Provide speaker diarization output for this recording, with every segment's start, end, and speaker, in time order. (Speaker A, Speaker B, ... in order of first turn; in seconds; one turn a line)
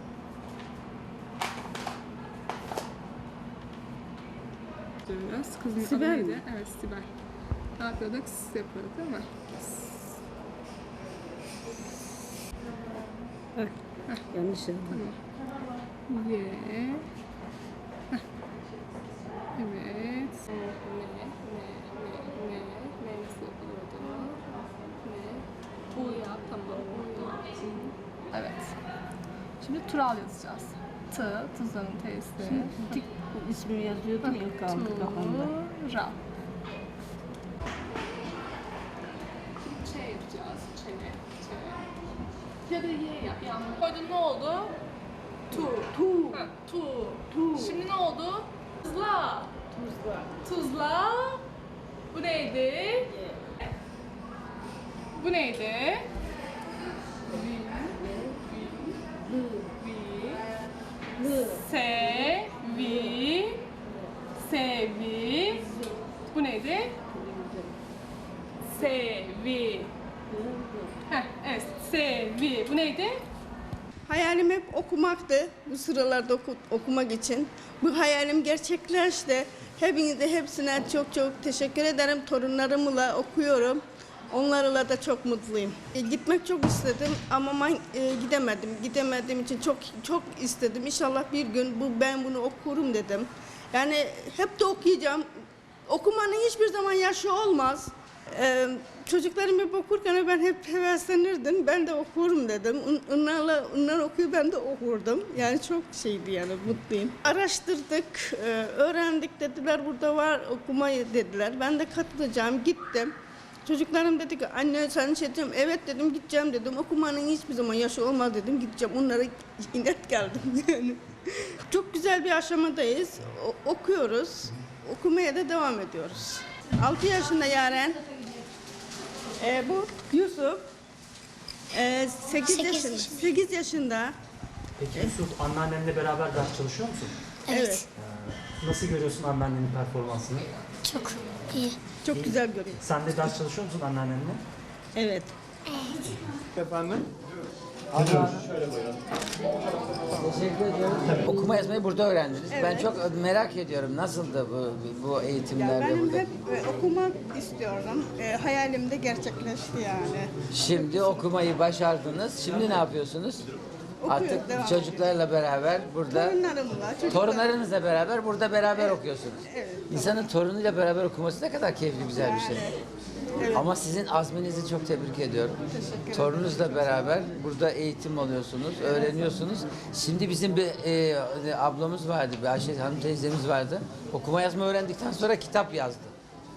Speaker A: 5.0-7.1
Speaker B: 5.8-6.4
Speaker A: 7.8-10.1
Speaker B: 14.3-15.0
Speaker A: 14.9-15.2
Speaker A: 16.1-17.1
Speaker A: 19.6-28.7
Speaker A: 29.6-33.0
Speaker B: 32.4-35.5
Speaker A: 34.2-36.2
Speaker A: 39.6-41.9
Speaker A: 42.7-44.8
Speaker A: 45.5-49.6
Speaker B: 45.5-46.4
Speaker B: 47.3-47.8
Speaker B: 49.9-50.3
Speaker A: 50.4-51.4
Speaker A: 52.1-53.1
Speaker A: 55.1-56.1
Speaker A: 57.3-57.9
Speaker A: 59.8-60.4
Speaker A: 61.3-63.6
Speaker A: 64.4-65.7
Speaker A: 66.3-67.0
Speaker A: 68.7-69.9
Speaker A: 71.1-73.2
Speaker C: 74.1-95.2
Speaker C: 95.9-113.1
Speaker C: 113.6-128.0
Speaker C: 129.4-130.6
Speaker C: 131.7-134.1
Speaker D: 132.5-133.3
Speaker E: 134.8-137.2
Speaker D: 137.5-137.8
Speaker C: 137.5-137.8
Speaker E: 138.0-140.5
Speaker D: 140.8-141.8
Speaker C: 142.0-142.9
Speaker E: 142.1-144.4
Speaker C: 144.9-145.3
Speaker D: 145.7-145.9
Speaker E: 147.9-148.4
Speaker F: 150.1-156.2
Speaker C: 152.5-153.0
Speaker C: 155.5-160.3
Speaker F: 160.5-163.5
Speaker C: 164.0-165.1
Speaker F: 164.1-166.3
Speaker C: 166.1-167.5
Speaker F: 167.1-172.7
Speaker C: 168.7-170.2
Speaker C: 172.1-172.8
Speaker C: 173.4-173.7
Speaker F: 173.5-175.6
Speaker C: 175.7-177.2
Speaker F: 176.1-186.1